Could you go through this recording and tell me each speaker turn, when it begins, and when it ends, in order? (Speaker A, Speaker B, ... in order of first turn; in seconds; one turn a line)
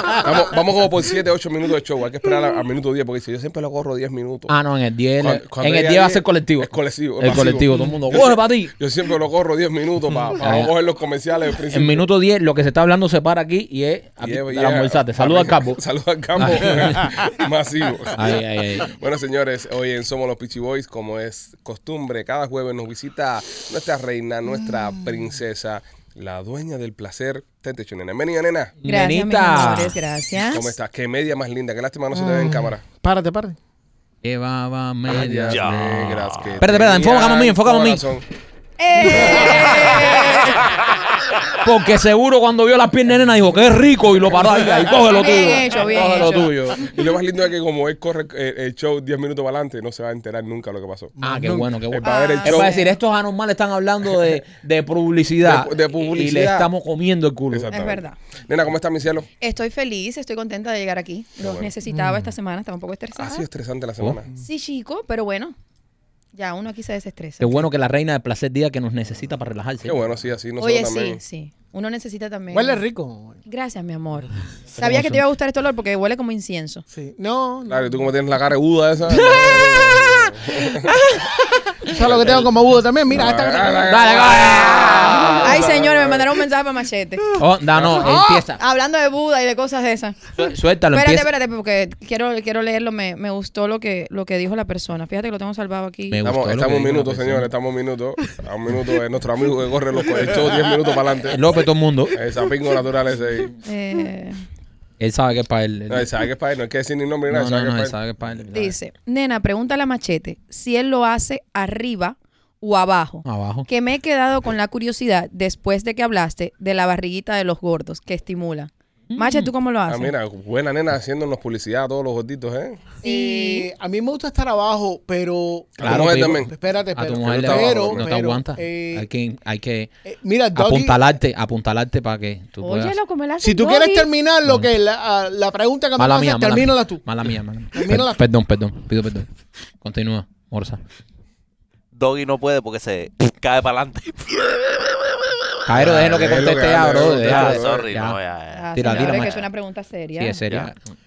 Speaker A: 0.1-4.5
Speaker B: 4.5-8.7
Speaker A: 5.2-12.1
Speaker B: 10.4-10.7
Speaker B: 11.7-15.8
Speaker A: 14.2-28.8
Speaker B: 16.4-17.1
Speaker B: 18.1-18.9
Speaker B: 28.8-30.0
Speaker C: 28.9-30.7
Speaker A: 30.4-32.8
Speaker D: 32.1-33.6
Speaker B: 34.2-38.0
Speaker A: 35.1-38.2
Speaker E: 35.5-36.5
Speaker C: 38.8-40.7
Speaker B: 41.6-46.9
Speaker C: 45.1-46.5
Speaker A: 46.8-51.2
Speaker D: 51.2-51.7
Speaker B: 51.2-57.7
Speaker A: 51.9-52.8
Speaker C: 52.0-52.9
Speaker A: 55.4-56.7
Speaker A: 57.5-59.3
Speaker C: 57.7-58.2
Speaker C: 59.4-63.5
Speaker A: 61.4-61.7
Speaker B: 62.0-62.3
Speaker A: 63.2-64.2
Speaker C: 64.4-65.5
Speaker C: 66.3-67.6
Speaker B: 67.4-70.0
Speaker A: 69.8-71.2
Speaker C: 70.6-72.8
Speaker D: 72.5-73.4
Speaker C: 73.5-76.8
Speaker B: 74.8-75.2
Speaker D: 76.9-78.0
Speaker A: 77.7-81.0
Speaker D: 79.3-79.8
Speaker D: 80.5-84.1
Speaker A: 81.9-82.5
Speaker A: 83.1-86.3
Speaker B: 83.8-85.6
Speaker C: 85.4-87.4
Speaker B: 87.4-88.6
Speaker A: 87.7-88.2
Speaker D: 88.0-88.5
Speaker C: 88.4-96.3
Speaker B: 90.3-91.3
Speaker B: 96.1-97.5
Speaker A: 96.2-101.5
Speaker B: 101.2-102.2
Speaker A: 102.1-103.5
Speaker C: 103.6-104.4
Speaker B: 105.0-106.1
Speaker A: 105.9-107.9
Speaker B: 107.3-108.8
Speaker C: 108.5-120.1
Speaker B: 113.2-113.7
Speaker B: 119.1-119.5
Speaker A: 119.9-122.9
Speaker C: 123.0-123.7
Speaker D: 123.0-129.1
Speaker A: 125.8-126.5
Speaker B: 125.8-126.4
Speaker B: 126.9-129.9
Speaker A: 127.2-128.1
Speaker D: 130.1-131.0
Speaker B: 130.5-132.9
Speaker C: 132.6-134.1
Speaker D: 133.4-137.0
Speaker B: 136.0-139.3
Speaker D: 137.7-138.2
Speaker B: 139.8-140.8
Speaker E: 141.9-144.9
Speaker B: 145.6-148.2
Speaker A: 145.7-147.9
Speaker E: 147.2-149.4
Speaker C: 148.5-150.4
Speaker B: 148.7-149.4
Speaker B: 150.2-150.8